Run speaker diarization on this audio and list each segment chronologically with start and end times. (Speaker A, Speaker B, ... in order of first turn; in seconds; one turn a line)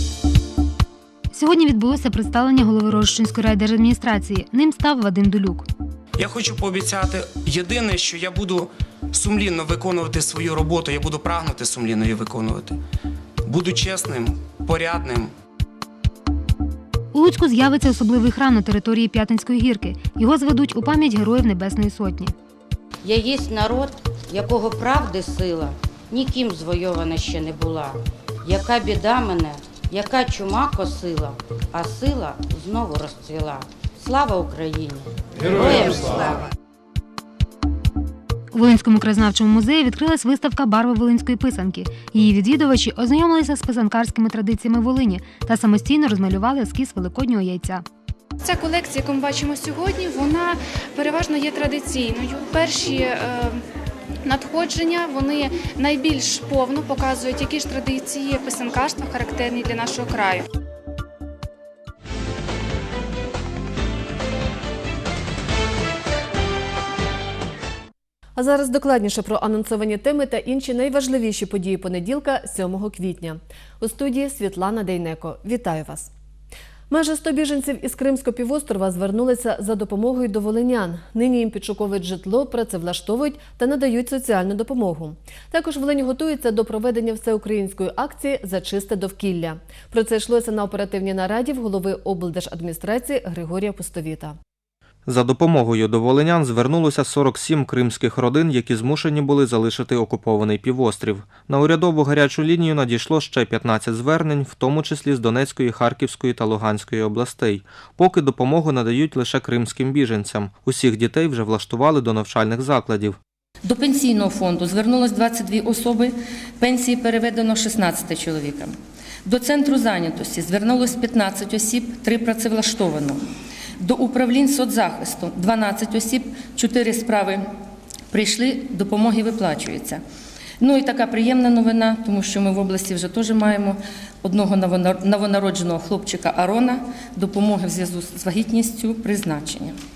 Speaker A: 1.3-5.7
Speaker B: 6.2-12.8
Speaker B: 13.4-15.3
Speaker A: 17.1-22.3
Speaker C: 23.0-36.5
Speaker A: 38.5-47.8
Speaker D: 48.4-53.6
Speaker D: 54.3-60.5
Speaker E: 68.4-76.1
Speaker E: 76.9-94.4
Speaker F: 95.1-113.2
Speaker G: 113.6-123.3
Speaker G: 123.8-127.5
Speaker G: 128.1-130.0
Speaker G: 130.6-139.8